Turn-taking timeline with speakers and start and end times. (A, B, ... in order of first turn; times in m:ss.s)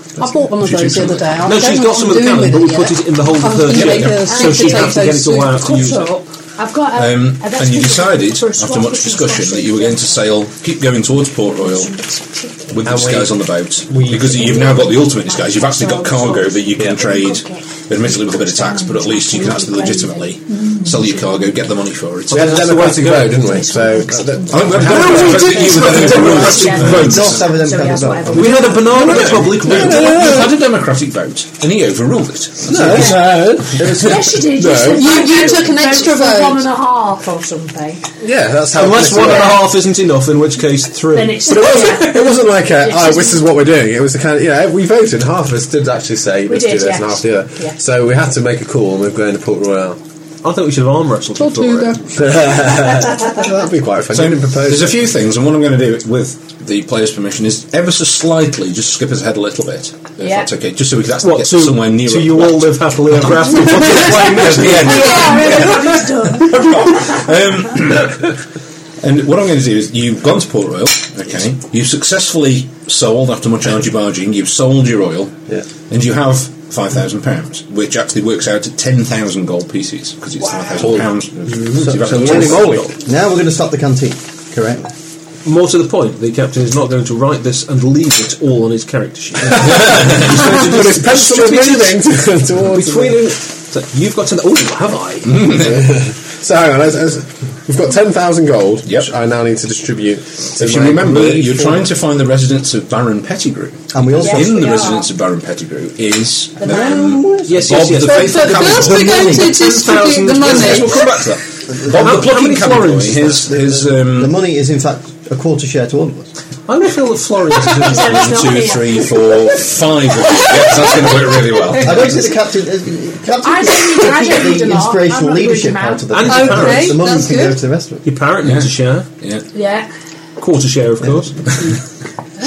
0:00.2-0:05.7 A
0:00.3-0:01.4 B
0:01.4-0:06.2 C
0:03.7-0:04.2 B
0:04.1-0:10.3 D
0:06.9-0:12.0 B
0:11.6-0:12.8 D
0:12.7-0:22.9 B
0:12.9-0:14.7 E
0:14.2-0:21.5 D
0:22.3-0:27.0 E
0:22.3-0:23.4 C
0:23.1-0:29.4 D
0:24.5-0:27.6 B
0:24.8-0:27.1 C
0:26.8-0:28.7 F
0:28.3-0:30.5 C
0:28.9-0:30.6 E
0:29.1-0:33.4 B
0:32.7-0:35.1 E
0:32.9-0:33.2 D
0:33.8-0:38.0 D
0:34.9-0:36.7 A
0:38.2-0:39.6 E
0:38.7-0:41.5 C
0:39.2-0:39.6 D
0:41.1-0:43.5 D
0:41.4-0:50.0 E
0:46.5-0:47.8 D
0:50.4-0:52.0 C
0:51.4-0:52.0 A
0:52.1-0:55.1 E
0:54.1-1:08.4 B
1:00.2-1:00.5 D
1:01.2-1:05.2 C
1:04.5-1:07.4 D
1:09.0-1:15.3 B
1:15.9-1:23.0 B
1:21.5-1:22.9 E
1:21.8-1:24.9 F
1:22.5-1:22.8 C
1:25.4-1:35.6 C
1:29.6-1:33.2 E
1:29.8-1:30.1 B
1:35.3-1:36.0 B
1:35.4-1:41.9 E
1:40.6-1:49.4 B
1:43.9-1:44.8 F
1:44.2-1:45.1 D
1:46.6-1:47.4 D
1:47.4-1:53.4 C
1:47.9-1:51.1 A
1:50.4-1:54.4 B
1:53.3-1:56.3 F
1:56.7-1:58.6 C
1:57.7-1:59.5 D
1:57.9-2:02.3 B
2:00.2-2:01.3 D
2:01.8-2:08.0 F
2:03.4-2:06.3 D
2:06.1-2:07.1 C
2:06.3-2:07.6 A
2:08.0-2:09.1 C
2:08.4-2:09.5 B
2:09.5-2:09.9 D
2:10.4-2:11.4 C